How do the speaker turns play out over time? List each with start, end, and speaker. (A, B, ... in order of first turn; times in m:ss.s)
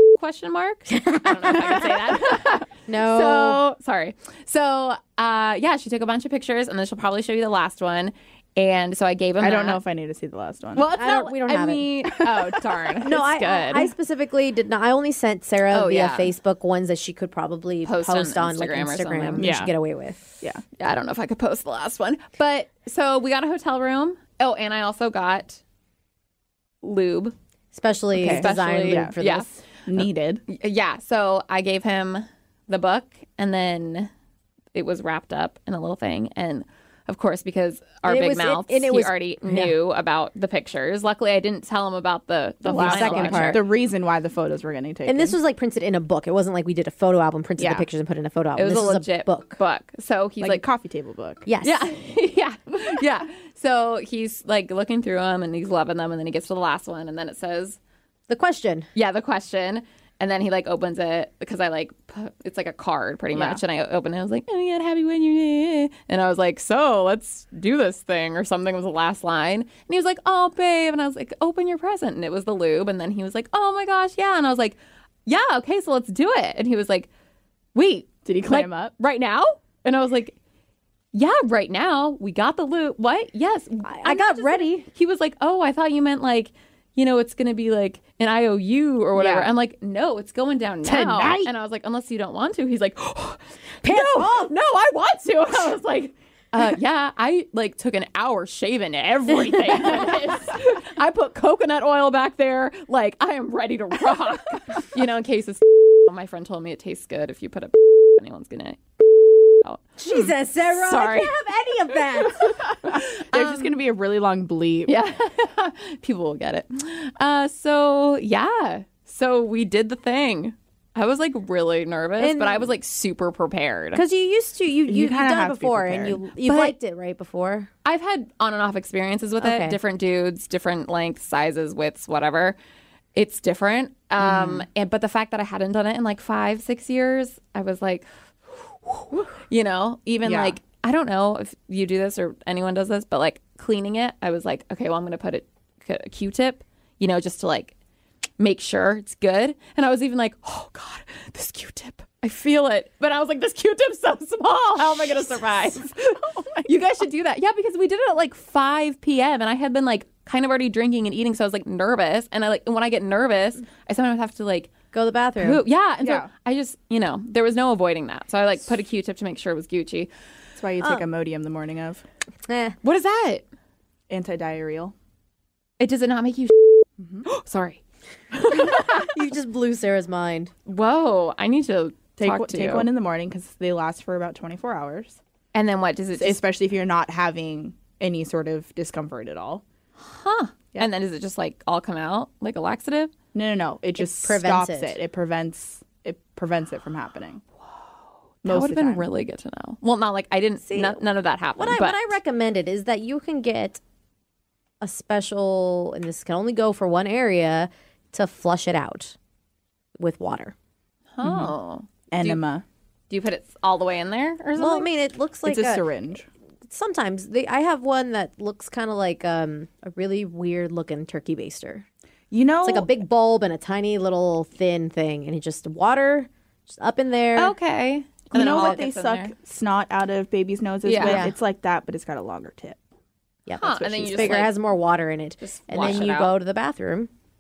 0:00.2-0:09.8 A
0:00.9-0:02.1 B
0:02.9-0:03.6 B
0:09.4-0:10.9 C
0:10.8-0:13.9 A
0:10.9-0:12.1 B
0:12.1-0:13.0 C
0:13.0-0:20.2 B
0:15.7-0:16.3 A
0:17.9-0:19.5 A
0:19.4-0:19.7 C
0:20.8-0:25.6 A
0:26.8-0:27.3 A
0:27.7-0:29.5 B
0:28.2-0:29.2 C
0:28.2-0:34.1 A
0:29.9-0:30.4 C
0:34.7-0:43.6 A
0:38.0-0:39.8 B
0:42.6-0:45.4 C
0:42.7-0:43.7 B
0:45.1-0:49.6 B
0:47.6-0:47.9 C
0:48.6-0:50.6 A
0:50.4-0:51.4 C
0:51.5-0:51.9 B
0:51.6-0:57.8 A
0:58.3-0:58.9 B
0:59.0-1:17.1 A
1:03.4-1:03.6 C
1:17.8-1:20.4 A
1:18.2-1:18.9 C
1:21.1-1:48.8 A
1:23.9-1:24.9 B
1:29.2-1:29.5 C
1:30.8-1:31.5 C
1:33.8-1:34.5 B
1:39.6-1:39.9 B
1:49.5-1:51.4 A
1:50.0-1:52.6 B
1:51.9-1:53.8 A
1:52.8-1:54.9 C
1:54.9-2:04.0 A
2:02.2-2:02.7 B
2:03.9-2:07.7 B
2:04.9-2:06.2 C
2:06.4-2:06.8 A
2:07.8-2:12.6 A
2:09.4-2:09.8 B
2:13.2-2:18.1 A
2:14.2-2:14.7 C
2:18.9-2:27.8 A
2:20.2-2:20.6 C
2:28.4-2:44.7 A
2:44.9-2:45.6 B
2:45.4-2:50.1 A
2:46.0-2:46.3 C
2:50.6-2:52.0 C
2:52.5-2:52.8 B
2:52.8-2:53.4 A
2:54.1-2:54.9 C
2:55.8-2:57.8 A
2:57.0-2:57.3 C
2:58.3-2:59.2 A
2:58.5-3:00.5 B
3:00.7-3:02.9 A
3:02.2-3:05.2 C
3:05.5-3:06.4 A
3:06.2-3:09.6 C
3:10.0-3:13.1 A
3:13.3-3:17.4 C
3:14.0-3:15.0 B
3:18.4-3:22.1 A
3:18.4-3:19.1 C
3:20.7-3:21.0 B
3:21.6-3:23.8 B
3:24.8-3:29.2 B
3:30.0-3:30.5 B
3:31.2-3:32.4 A
3:31.2-3:31.5 C
3:32.1-3:32.6 C
3:33.1-3:34.9 A
3:34.6-3:35.8 B
3:35.4-3:36.3 C
3:36.6-3:41.9 B
3:42.3-3:42.9 C
3:42.6-3:47.6 B
3:47.4-3:49.3 A
3:48.3-3:52.8 C
3:48.4-3:48.8 B
3:50.8-3:51.3 A
3:51.0-3:51.3 B
3:53.5-3:57.1 B
3:53.6-3:54.5 A
3:54.2-3:54.4 C
3:55.4-3:56.3 A